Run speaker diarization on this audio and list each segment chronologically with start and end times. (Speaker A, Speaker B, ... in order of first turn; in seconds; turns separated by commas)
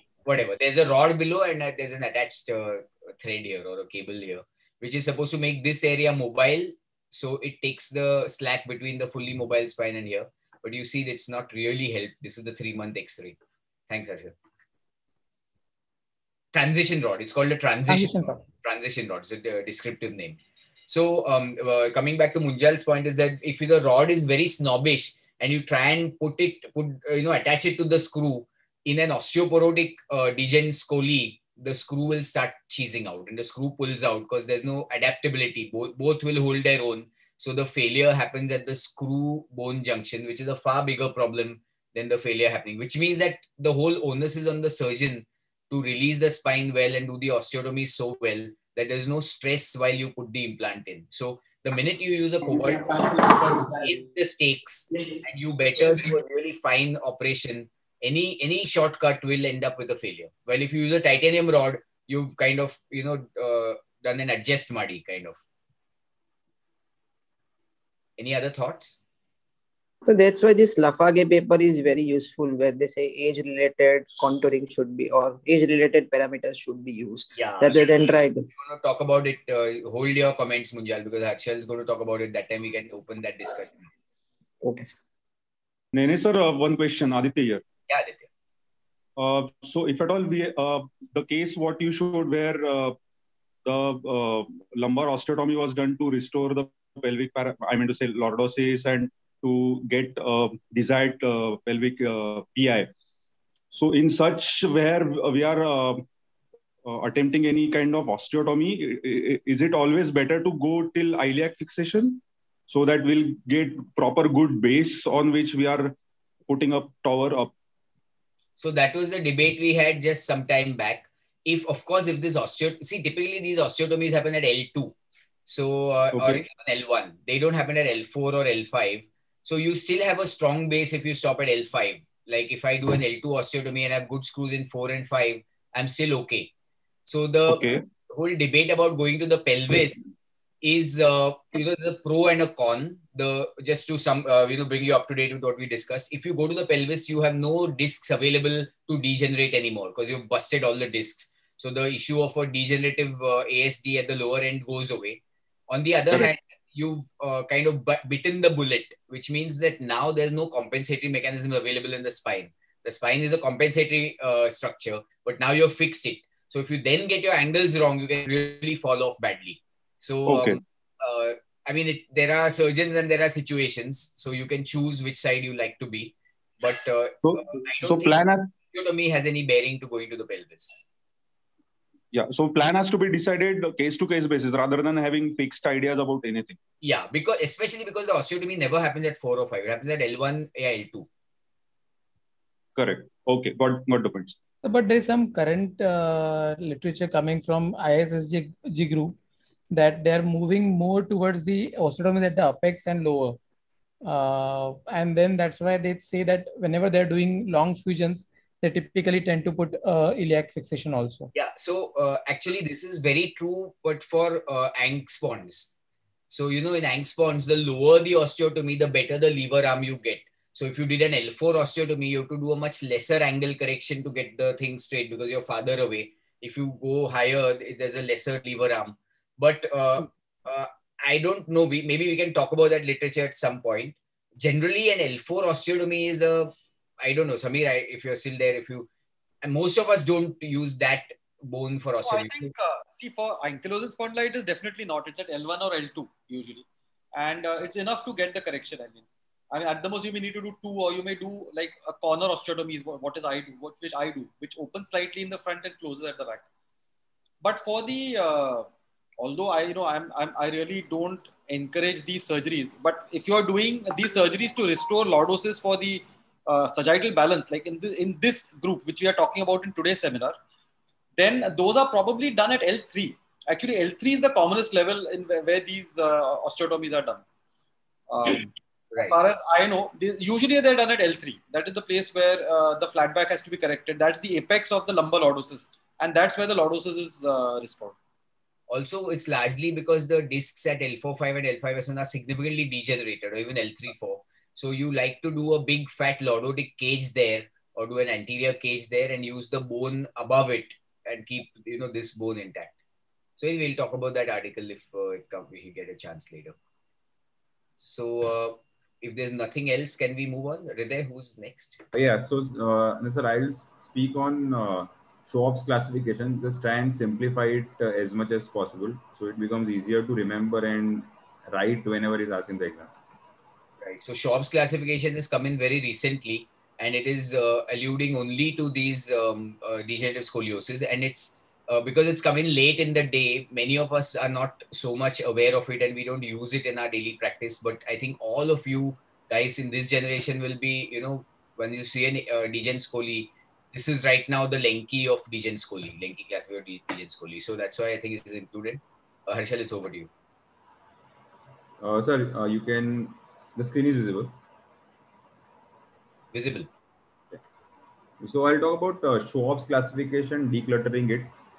Speaker A: 0.3-13.4, Speaker A: 13.9-14.3, Speaker A: 16.5-65.4, Speaker B: 17.9-18.4, Speaker A: 68.2-69.0, Speaker C: 70.0-78.5, Speaker A: 77.3-83.9, Speaker C: 84.6-84.9, Speaker D: 85.9-87.6, Speaker A: 87.9-88.3, Speaker D: 89.2-93.0, Speaker D: 93.7-102.9, Speaker D: 103.7-106.0, Speaker D: 106.9-115.9, Speaker D: 116.5-117.5, Speaker A: 118.6-125.0, Speaker A: 125.5-136.5, Speaker D: 126.1-126.5, Speaker A: 137.1-140.0, Speaker D: 137.5-137.8, Speaker A: 140.6-180.8, Speaker D: 170.3-170.6, Speaker D: 177.2-178.5, Speaker D: 182.1-186.6, Speaker A: 186.8-191.1, Speaker D: 192.8-194.4, Speaker B: 194.6-199.2, Speaker B: 199.7-203.4, Speaker B: 204.0-211.3, Speaker A: 211.3-215.7, Speaker A: 216.3-238.9, Speaker A: 239.4-242.5, Speaker E: 242.0-256.5, Speaker E: 257.4-258.7, Speaker E: 259.2-270.4, Speaker E: 271.2-277.2, Speaker E: 278.1-287.9, Speaker A: 288.7-302.8, Speaker A: 303.4-306.6, Speaker A: 307.8-311.8, Speaker F: 311.9-322.9, Speaker A: 323.8-350.1, Speaker F: 351.8-354.3, Speaker A: 356.3-356.7, Speaker F: 358.2-361.3